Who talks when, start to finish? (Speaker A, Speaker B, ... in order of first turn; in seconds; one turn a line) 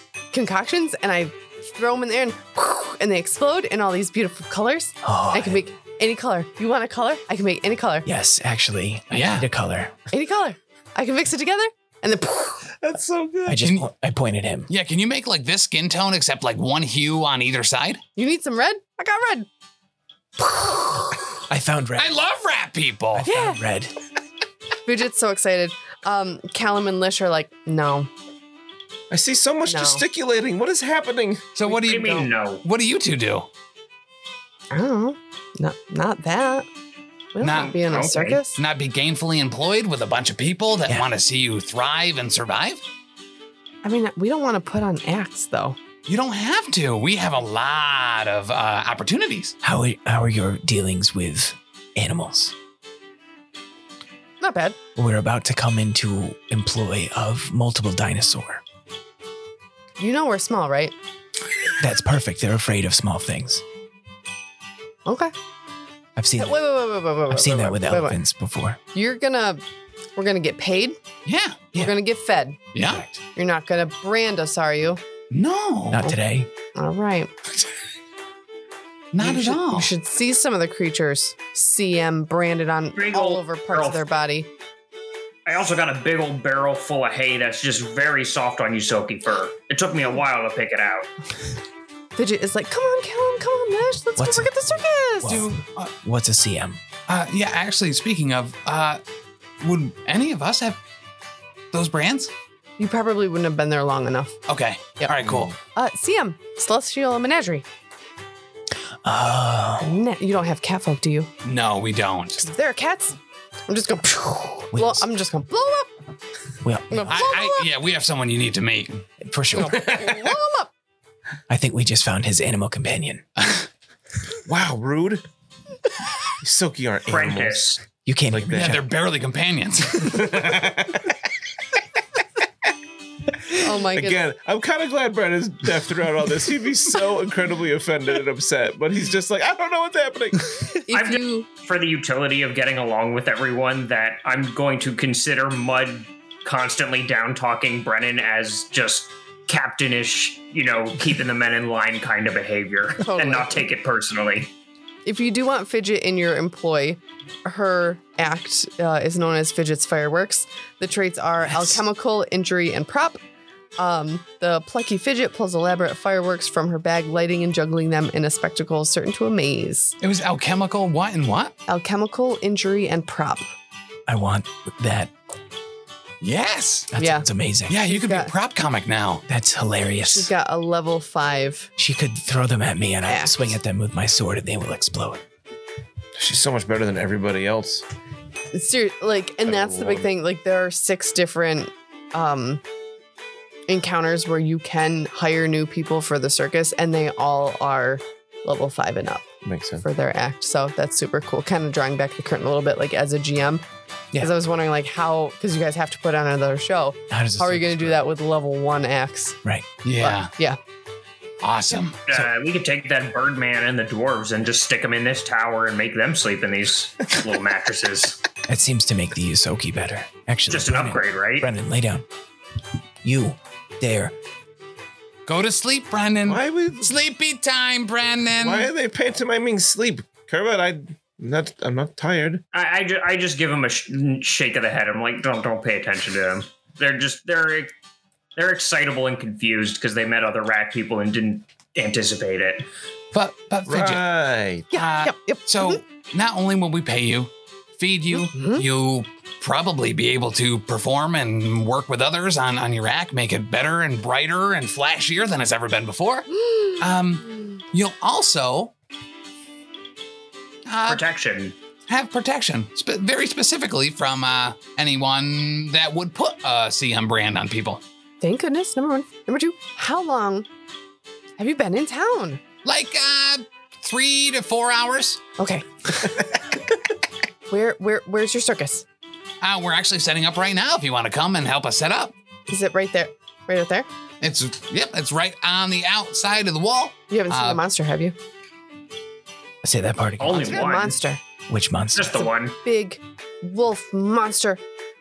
Speaker A: 0.3-8.1
Speaker B: 5.0-5.6
Speaker B: 8.1-9.9
Speaker C: 9.1-9.5
Speaker A: 10.1-12.7
Speaker D: 12.8-13.6
Speaker B: 13.4-14.7
Speaker C: 13.6-13.9
Speaker C: 14.7-18.0
Speaker A: 18.2-19.5
Speaker A: 20.5-20.9
Speaker B: 21.5-22.2
Speaker C: 22.0-23.3
Speaker B: 23.1-23.9
Speaker A: 23.2-23.6
Speaker A: 24.9-28.1
Speaker D: 29.1-31.5
Speaker A: 29.7-30.0
Speaker C: 31.6-33.5
Speaker E: 31.7-32.6
Speaker A: 34.7-36.7
Speaker A: 37.3-38.6
Speaker C: 37.4-37.7
Speaker E: 37.5-38.4
Speaker C: 38.5-42.8
Speaker A: 43.8-45.8
Speaker C: 46.0-49.5
Speaker B: 49.6-52.5
Speaker A: 54.4-54.8
Speaker B: 55.0-58.6
Speaker A: 60.0-60.9
Speaker B: 61.8-63.6
Speaker A: 65.0-65.3
Speaker B: 66.2-66.6
Speaker A: 66.4-68.2
Speaker B: 67.3-68.8
Speaker A: 68.9-69.6
Speaker A: 70.2-71.0
Speaker C: 71.3-71.7
Speaker A: 71.7-72.6
Speaker C: 72.7-73.0
Speaker B: 72.9-73.2
Speaker A: 73.3-75.0
Speaker C: 75.3-76.0
Speaker B: 75.9-76.5
Speaker A: 76.7-77.3
Speaker C: 79.1-79.9
Speaker A: 79.2-84.5
Speaker E: 83.0-84.0
Speaker E: 85.5-91.1
Speaker A: 92.2-95.5
Speaker B: 94.2-96.8
Speaker C: 95.2-95.9
Speaker C: 97.1-99.0
Speaker C: 99.6-100.8
Speaker C: 101.7-102.3
Speaker A: 102.8-104.3
Speaker C: 104.5-105.5
Speaker A: 105.7-107.7
Speaker B: 109.0-109.9
Speaker A: 109.8-111.3
Speaker C: 111.4-112.5
Speaker A: 112.4-115.9
Speaker B: 114.7-115.1
Speaker B: 116.6-117.2
Speaker A: 116.9-117.7
Speaker C: 117.1-119.0
Speaker B: 119.2-120.0
Speaker A: 119.5-120.7
Speaker D: 119.7-120.2
Speaker B: 121.5-123.2
Speaker D: 124.5-125.2
Speaker D: 126.4-127.7
Speaker E: 127.1-127.8
Speaker B: 128.1-128.8
Speaker D: 128.3-128.9
Speaker C: 128.4-130.6
Speaker D: 130.0-131.1
Speaker D: 133.5-140.7
Speaker A: 133.6-134.2
Speaker A: 140.9-141.5
Speaker E: 140.9-154.5
Speaker A: 153.0-153.7
Speaker A: 155.1-163.2
Speaker A: 163.8-169.9
Speaker C: 170.0-171.5
Speaker A: 171.7-173.5
Speaker B: 174.1-175.1
Speaker C: 176.2-176.9
Speaker B: 176.9-177.8
Speaker A: 177.0-177.3
Speaker C: 177.7-179.2
Speaker A: 177.8-178.3
Speaker B: 179.3-180.3
Speaker A: 180.0-181.7
Speaker B: 181.8-185.2
Speaker A: 183.1-183.6
Speaker D: 186.2-187.8
Speaker A: 188.5-192.6
Speaker D: 189.4-190.1
Speaker A: 193.7-199.3
Speaker D: 199.4-199.8
Speaker A: 199.8-203.6
Speaker A: 204.2-209.4
Speaker B: 207.1-208.0
Speaker C: 209.8-210.3
Speaker A: 210.0-210.6
Speaker C: 211.4-212.2
Speaker E: 212.1-218.2
Speaker B: 218.5-222.1
Speaker E: 220.5-221.5
Speaker B: 223.0-224.1
Speaker C: 225.3-228.7
Speaker D: 226.2-226.9
Speaker D: 228.4-232.4
Speaker E: 232.5-237.7
Speaker E: 238.4-242.7
Speaker C: 243.1-244.1
Speaker D: 243.7-244.7
Speaker A: 244.7-245.8
Speaker C: 244.7-258.7
Speaker A: 248.1-248.6
Speaker C: 260.7-261.0
Speaker E: 260.9-261.6
Speaker C: 261.9-267.8
Speaker A: 268.2-270.5
Speaker A: 271.4-272.4
Speaker C: 272.6-275.2
Speaker A: 275.4-276.2
Speaker A: 277.5-278.9
Speaker C: 279.4-282.1
Speaker A: 282.5-283.9
Speaker C: 284.2-287.6
Speaker A: 287.1-288.1
Speaker B: 289.6-290.6
Speaker E: 290.2-290.9
Speaker A: 290.4-291.2
Speaker B: 291.5-292.3
Speaker E: 291.9-292.6
Speaker A: 292.5-294.6